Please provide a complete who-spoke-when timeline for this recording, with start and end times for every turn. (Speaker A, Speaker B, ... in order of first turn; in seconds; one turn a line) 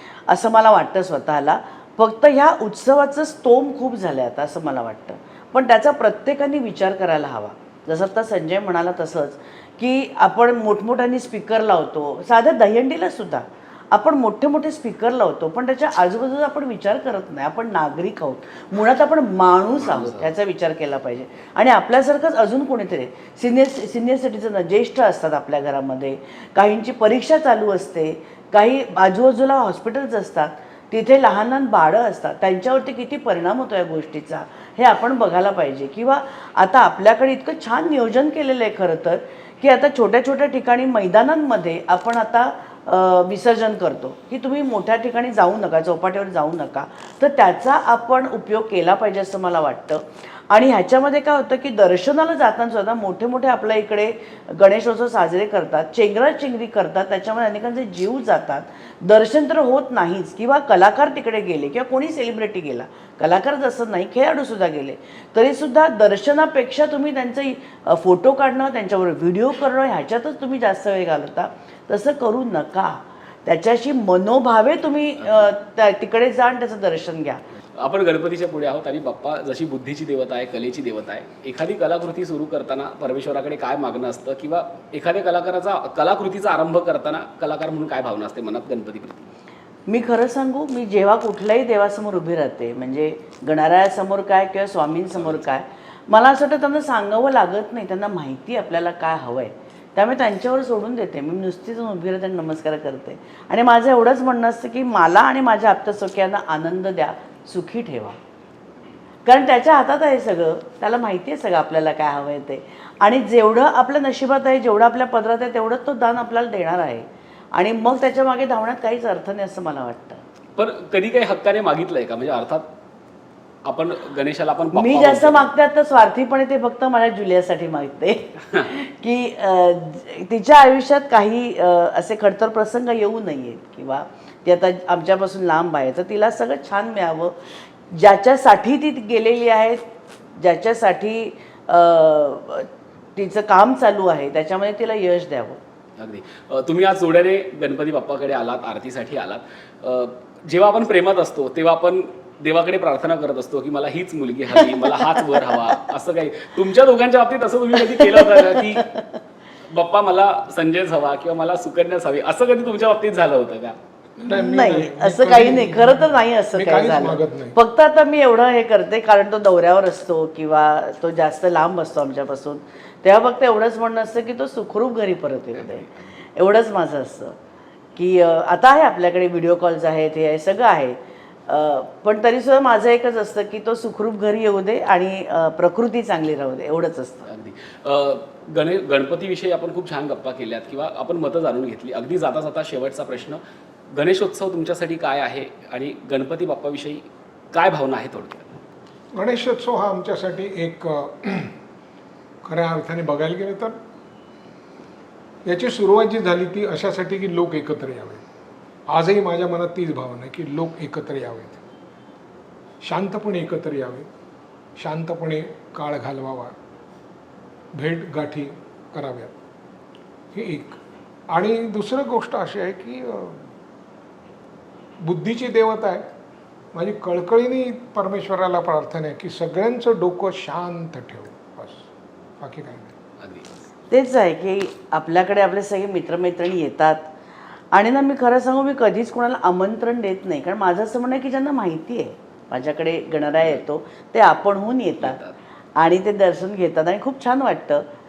Speaker A: 0.3-77.4
Speaker B: 19.8-20.3
Speaker B: 75.2-75.5
Speaker B: 77.8-89.3
Speaker A: 89.9-108.2
Speaker B: 95.1-95.4
Speaker A: 109.2-120.2
Speaker B: 120.5-122.7
Speaker B: 123.7-125.5
Speaker A: 124.7-139.8
Speaker A: 140.4-145.6
Speaker B: 146.0-158.9
Speaker A: 154.6-155.5
Speaker A: 157.8-159.1
Speaker B: 159.7-164.2
Speaker C: 164.2-167.5
Speaker A: 164.3-177.3
Speaker B: 175.6-176.0
Speaker A: 177.9-187.3
Speaker B: 187.3-193.4
Speaker B: 193.9-198.6
Speaker C: 199.1-201.5
Speaker C: 202.4-203.8
Speaker C: 205.4-208.2
Speaker C: 208.9-211.6
Speaker C: 212.8-214.1
Speaker C: 214.8-216.6
Speaker C: 217.7-219.3
Speaker C: 220.3-220.8
Speaker C: 221.3-223.5
Speaker C: 225.0-226.1
Speaker C: 226.7-232.9
Speaker B: 233.2-233.7
Speaker A: 233.9-237.1
Speaker A: 237.7-245.2
Speaker B: 245.0-245.3
Speaker A: 245.8-247.8